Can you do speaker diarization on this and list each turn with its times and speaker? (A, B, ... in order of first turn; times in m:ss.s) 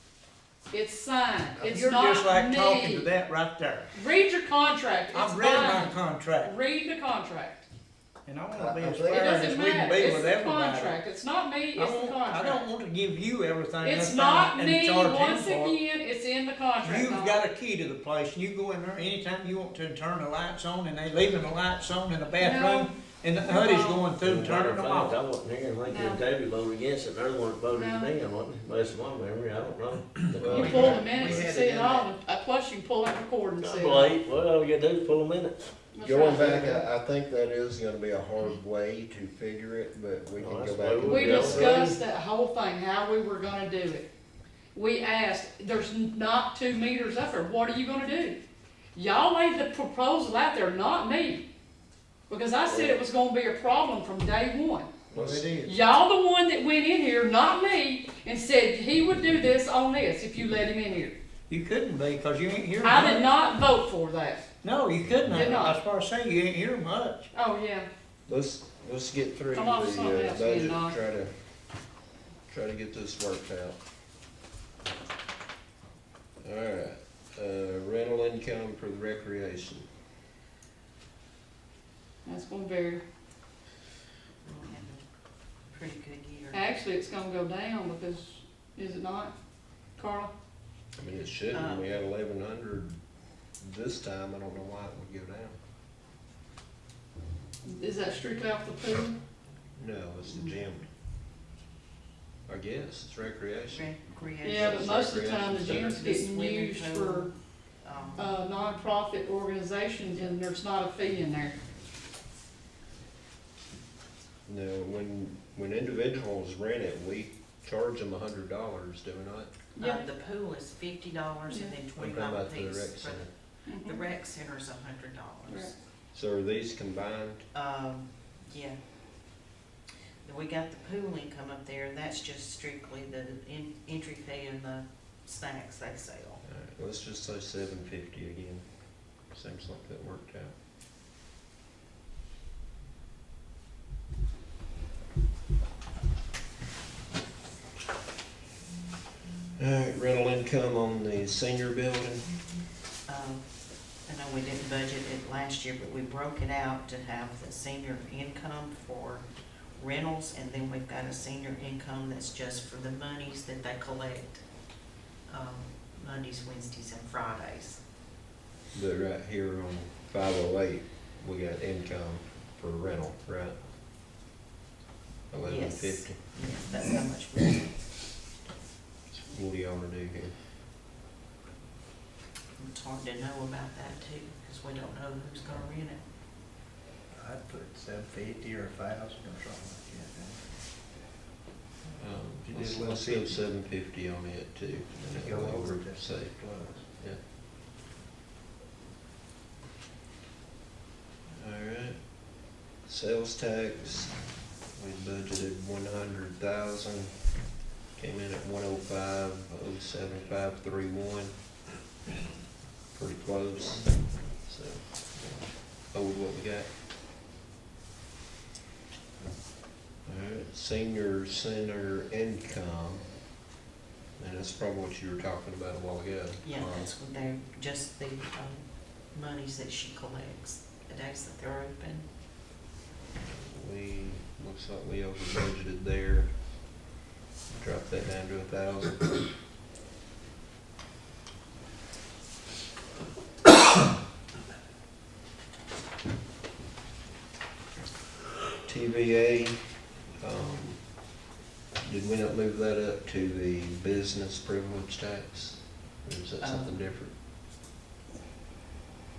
0:00.7-0:03.1 A
0:01.6-0:03.9 B
0:03.9-0:07.7 A
0:05.1-0:06.5 B
0:08.3-0:11.0 B
0:08.5-0:09.2 C
0:09.1-0:12.7 A
0:11.8-0:15.8 B
0:13.8-0:17.4 A
0:16.8-0:25.2 B
0:22.4-0:24.1 A
0:24.2-0:30.8 D
0:25.9-0:26.2 A
0:27.7-0:28.1 A
0:30.3-0:31.2 C
0:30.4-0:32.1 B
0:30.5-0:34.2 A
0:33.6-0:35.6 D
0:35.9-0:36.9 A
0:36.0-0:41.9 C
0:40.4-0:42.0 D
0:41.0-0:44.1 A
0:44.7-0:48.4 A
0:48.9-0:51.5 A
0:52.3-0:54.9 A
0:52.7-0:53.0 C
0:55.1-0:55.5 C
0:55.1-0:55.7 B
0:55.6-1:01.2 A
1:01.5-1:03.2 B
1:02.8-1:04.5 A
1:04.6-1:07.3 B
1:05.3-1:05.8 A
1:07.3-1:07.9 A
1:08.3-1:11.3 C
1:09.5-1:11.0 A
1:12.5-1:13.8 C
1:16.4-1:19.9 C
1:22.2-1:23.0 A
1:24.4-1:25.0 E
1:25.7-1:26.7 E
1:26.5-1:29.3 A
1:30.0-1:30.3 A
1:31.0-1:33.0 C
1:31.5-1:31.9 E
1:33.6-1:35.6 C
1:37.7-1:39.2 A
1:39.8-1:40.9 C
1:42.5-1:43.9 C
1:43.7-1:45.1 E
1:44.4-1:47.3 A
1:44.5-1:46.0 C
1:45.7-1:47.3 E
1:47.8-1:48.3 E
1:48.2-1:51.6 A
1:50.0-1:50.4 E
1:54.5-1:59.5 C
1:59.8-2:00.1 A
1:59.8-2:05.8 E
2:01.5-2:01.8 A
2:02.0-2:03.3 C
2:03.7-2:04.1 A
2:05.5-2:05.7 A
2:06.1-2:07.4 C
2:07.5-2:08.8 E
2:10.2-2:16.4 E
2:16.5-2:18.6 C
2:19.3-2:20.5 C
2:29.6-2:32.2 C
2:33.1-2:33.4 E
2:34.1-2:39.2 E
2:39.8-2:44.4 E
2:45.3-2:47.8 E
2:48.7-2:53.5 C
2:55.3-2:56.2 C
2:55.4-2:57.8 E
2:59.1-3:00.3 C
3:02.6-3:06.1 E
3:07.1-3:10.4 F
3:12.0-3:17.2 C
3:12.4-3:13.4 F
3:15.0-3:16.8 F
3:21.4-3:22.0 C
3:22.9-3:24.2 C
3:24.8-3:27.1 C
3:28.0-3:31.3 C
3:33.0-3:33.9 C
3:34.4-3:36.7 C
3:40.1-3:43.0 C
3:44.2-3:46.9 C
3:46.4-3:52.1 E
3:53.3-3:56.3 C
3:57.5-3:59.1 C
4:08.6-4:09.6 C
4:10.2-4:10.8 C
4:11.8-4:17.1 C
4:16.4-4:16.8 E